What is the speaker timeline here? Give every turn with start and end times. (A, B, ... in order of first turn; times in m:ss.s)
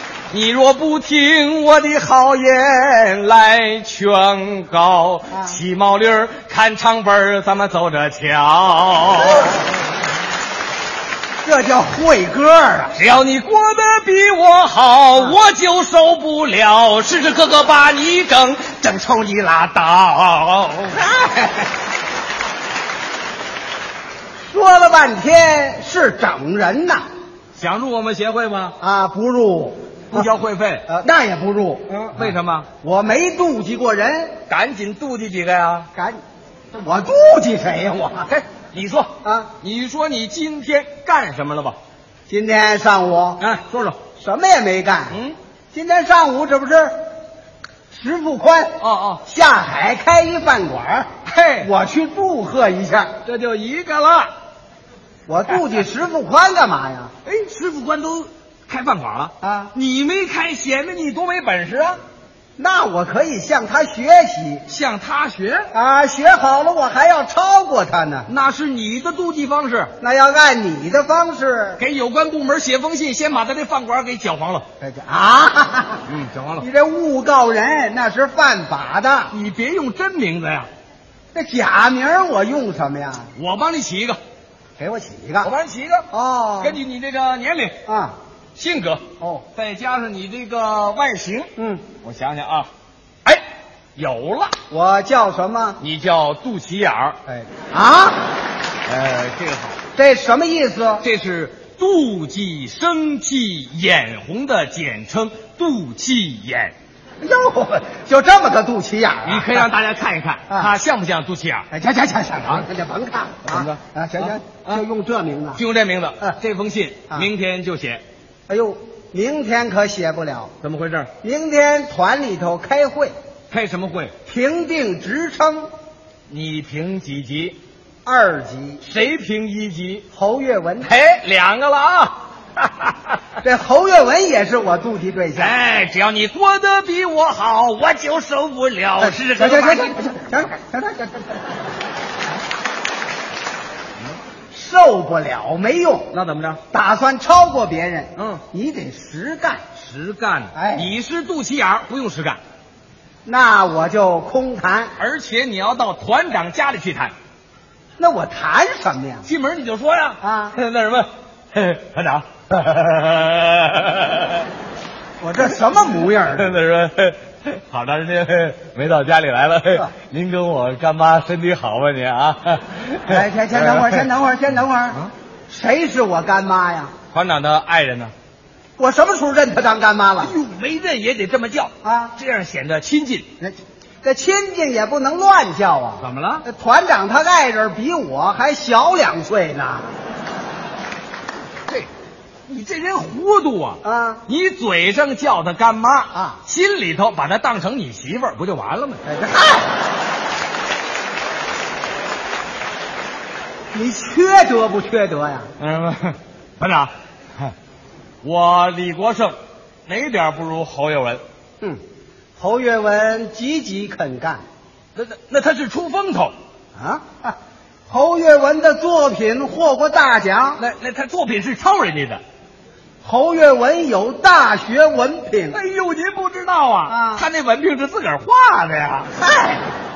0:00.3-0:09.6 A
0:05.3-0:05.6 B
0:11.4-0:13.0 B
0:12.9-0:21.0 A
0:21.0-0:21.7 B
0:24.4-0:27.0 B
0:27.6-0:28.8 A
0:28.8-0:30.3 B
0:30.1-0:30.8 A
0:30.9-0:34.4 B
0:31.9-0:32.7 A
0:34.5-0:35.9 A
0:35.9-0:36.2 B
0:36.7-0:38.3 B
0:38.3-0:41.8 A
0:39.2-0:39.5 B
0:42.3-0:43.4 B
0:43.4-0:44.0 A
0:44.2-0:45.2 B
0:45.1-0:45.4 A
0:45.7-0:46.9 B
0:47.9-0:53.1 B
0:48.8-0:49.2 A
0:51.2-0:51.7 A
0:53.2-0:54.3 A
0:55.3-0:57.1 B
0:57.2-1:02.0 A
0:59.4-0:59.7 B
1:02.6-1:04.6 B
1:04.7-1:05.7 A
1:05.7-1:08.3 B
1:08.3-1:09.9 A
1:10.0-1:11.8 B
1:11.8-1:14.6 A
1:14.8-1:16.0 B
1:16.1-1:16.6 A
1:16.6-1:19.3 B
1:19.3-1:20.7 A
1:21.3-1:23.3 B
1:23.3-1:24.2 A
1:24.8-1:25.5 B
1:25.4-1:26.1 A
1:26.1-1:26.8 B
1:26.6-1:27.8 A
1:27.8-1:28.1 B
1:28.6-1:29.0 A
1:29.2-1:29.4 B
1:29.5-1:32.7 A
1:31.6-1:31.9 B
1:34.0-1:34.5 A
1:34.7-1:35.8 B
1:35.8-1:37.2 A
1:37.3-1:38.3 B
1:38.9-1:39.8 A
1:39.9-1:41.0 B
1:41.0-1:46.7 A
1:47.2-1:49.7 B
1:49.2-1:51.7 A
1:51.7-1:55.6 B
1:53.4-1:54.8 A
1:55.6-1:58.0 A
1:58.5-2:00.5 B
2:00.6-2:01.1 A
2:01.2-2:03.1 B
2:03.5-2:04.1 A
2:04.3-2:05.7 B
2:06.3-2:07.6 A
2:08.0-2:08.8 B
2:08.8-2:10.1 A
2:10.1-2:10.9 B
2:10.8-2:13.2 A
2:13.4-2:15.6 B
2:15.4-2:20.5 A
2:19.0-2:21.4 B
2:24.5-2:26.1 B
2:26.1-2:26.6 A
2:26.7-2:29.7 B
2:28.2-2:28.4 A
2:29.8-2:32.4 A
2:30.5-2:30.9 B
2:33.2-2:34.9 B
2:35.0-2:37.1 A
2:38.0-2:39.2 B
2:39.2-2:44.5 A
2:40.2-2:40.6 B
2:45.2-2:46.6 B
2:46.2-2:54.0 A
2:53.1-2:56.9 B
2:57.1-2:58.1 A
2:58.8-3:00.3 B
3:00.2-3:03.3 A
3:01.8-3:02.2 B
3:03.4-3:09.9 B
3:06.0-3:06.4 A
3:12.5-3:19.0 A
3:13.8-3:14.2 B
3:16.1-3:16.4 B
3:19.0-3:19.7 B
3:23.7-3:25.5 B
3:25.6-3:27.5 A
3:28.2-3:31.2 A
3:32.4-3:34.4 B
3:35.0-3:36.3 A
3:36.8-3:37.4 B
3:37.9-3:40.6 B
3:40.6-3:42.2 A
3:43.0-3:45.6 B
3:45.5-3:49.1 A
3:46.9-3:47.3 B
3:49.2-3:49.7 B